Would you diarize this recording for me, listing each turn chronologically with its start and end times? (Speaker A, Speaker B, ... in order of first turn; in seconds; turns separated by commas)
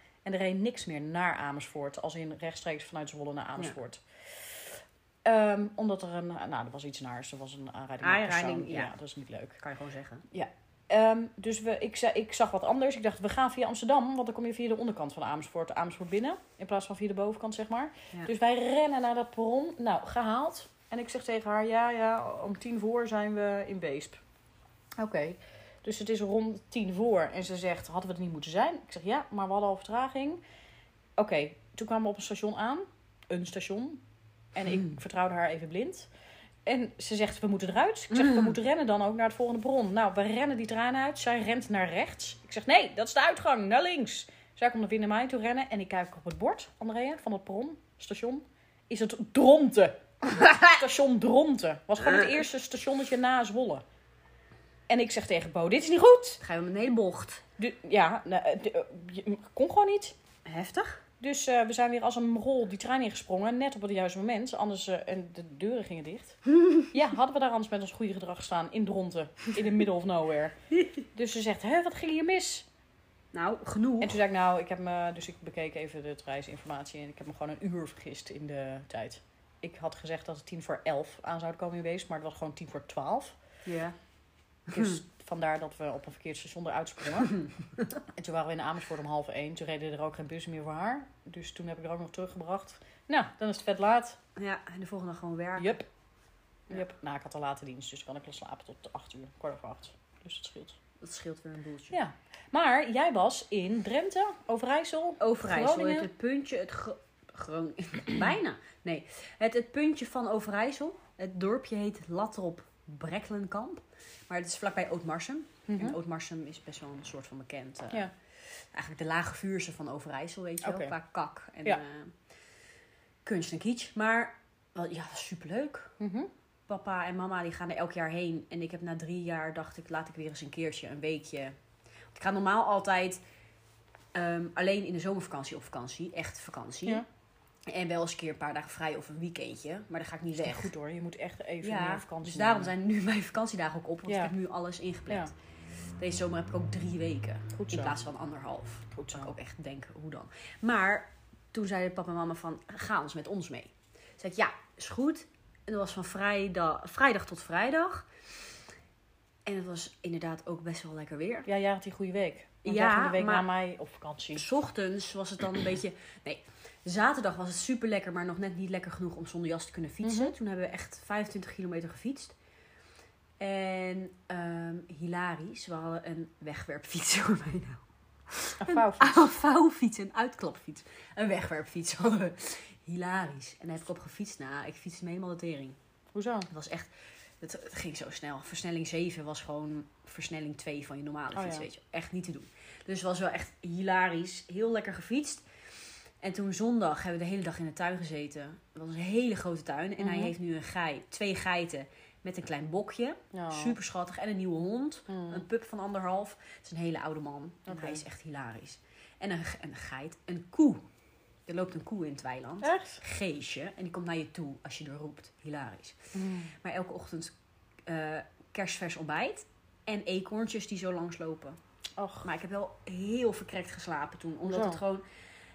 Speaker A: 0.2-4.7, Speaker A: 5.2-9.6, Speaker B: 8.0-8.9, Speaker B: 9.6-10.2, Speaker A: 10.3-24.2, Speaker A: 25.0-30.4, Speaker A: 31.2-34.0, Speaker A: 34.5-36.1, Speaker A: 36.6-50.0, Speaker B: 38.1-38.5, Speaker B: 50.2-50.8, Speaker A: 50.6-53.8, Speaker B: 52.0-52.4, Speaker A: 54.9-56.4, Speaker B: 56.4-57.4, Speaker A: 57.6-60.1, Speaker B: 60.4-61.0, Speaker A: 61.2-70.5, Speaker A: 71.1-72.7, Speaker B: 73.3-74.2, Speaker A: 74.0-83.4, Speaker B: 83.6-84.0, Speaker B: 84.7-85.0, Speaker A: 84.7-87.4, Speaker A: 88.1-94.2, Speaker B: 94.3-95.7, Speaker A: 95.6-95.8, Speaker A: 96.7-100.8, Speaker B: 101.0-102.0, Speaker A: 101.9-106.1, Speaker B: 105.2-122.2, Speaker A: 115.7-116.0, Speaker A: 120.6-120.9, Speaker B: 123.2-125.9, Speaker A: 126.0-126.3, Speaker B: 126.7-131.6, Speaker B: 132.1-133.2, Speaker B: 134.1-137.0, Speaker B: 137.7-140.7, Speaker A: 140.3-142.7, Speaker B: 141.6-145.3, Speaker A: 144.1-144.3, Speaker B: 146.0-158.1, Speaker A: 147.5-148.0, Speaker A: 148.9-149.3, Speaker B: 159.4-161.5, Speaker A: 161.4-164.4, Speaker B: 162.6-163.5, Speaker B: 164.3-172.3, Speaker A: 170.0-170.3, Speaker B: 173.4-185.8, Speaker A: 178.6-179.3, Speaker A: 186.1-186.5, Speaker B: 186.5-195.4, Speaker A: 191.3-191.7, Speaker B: 196.2-210.8, Speaker A: 200.0-200.3, Speaker A: 203.3-203.8, Speaker A: 205.1-205.4, Speaker A: 207.7-208.0, Speaker B: 211.5-216.0, Speaker A: 212.6-213.0, Speaker A: 216.1-216.5, Speaker B: 216.5-217.3, Speaker B: 217.8-221.6, Speaker A: 222.0-222.3, Speaker B: 222.2-225.0, Speaker A: 224.4-224.8